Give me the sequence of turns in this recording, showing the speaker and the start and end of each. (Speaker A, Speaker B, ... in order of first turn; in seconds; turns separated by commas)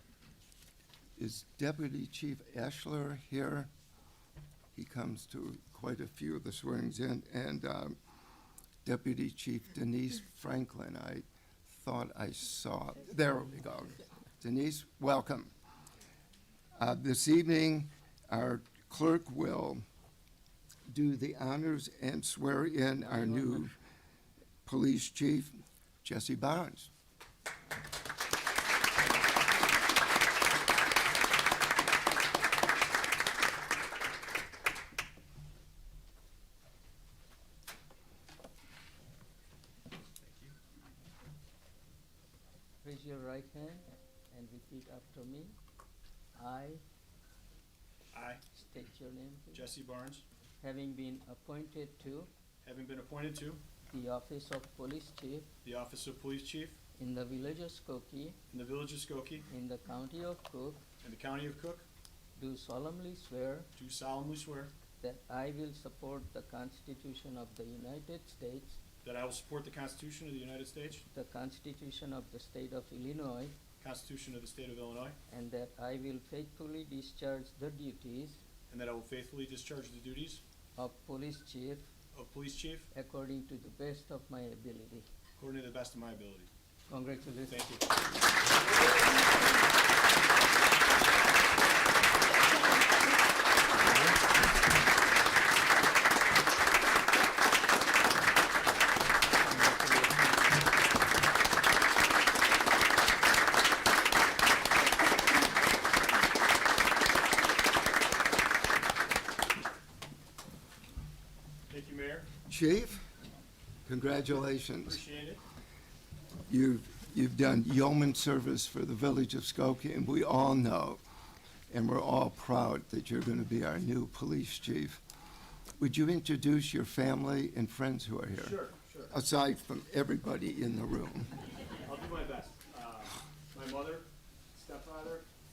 Speaker A: 1.2-3.7, Speaker A: 4.7-8.0, Speaker A: 8.8-15.5, Speaker A: 16.8-19.8, Speaker A: 20.9-23.7, Speaker B: 23.0-23.7, Speaker A: 24.6-26.9, Speaker C: 40.2-40.5, Speaker B: 42.8-45.5, Speaker B: 46.3-46.8, Speaker C: 48.1-48.4, Speaker B: 48.5-49.7, Speaker C: 49.5-50.2, Speaker B: 50.6-52.3, Speaker C: 52.6-53.6, Speaker B: 53.9-55.5, Speaker C: 55.6-56.8, Speaker B: 57.0-58.4, Speaker C: 58.5-59.5, Speaker B: 59.5-60.8, Speaker C: 61.0-61.8, Speaker B: 62.4-63.7, Speaker C: 63.8-64.7, Speaker B: 65.0-68.8, Speaker C: 69.0-71.0, Speaker B: 71.1-73.5, Speaker C: 73.8-75.2, Speaker B: 75.3-78.4, Speaker C: 78.7-80.4, Speaker B: 80.7-81.8, Speaker C: 82.1-82.9, Speaker B: 82.9-85.0, Speaker C: 85.4-86.5, Speaker B: 86.9-87.6, Speaker C: 87.5-87.8, Speaker B: 99.4-100.5, Speaker C: 111.7-112.3, Speaker A: 112.5-113.0, Speaker A: 113.8-115.0, Speaker C: 114.7-115.4, Speaker A: 116.5-121.0, Speaker A: 121.7-125.0, Speaker A: 125.8-128.6, Speaker C: 128.3-129.1, Speaker A: 129.1-131.3, Speaker C: 131.8-135.2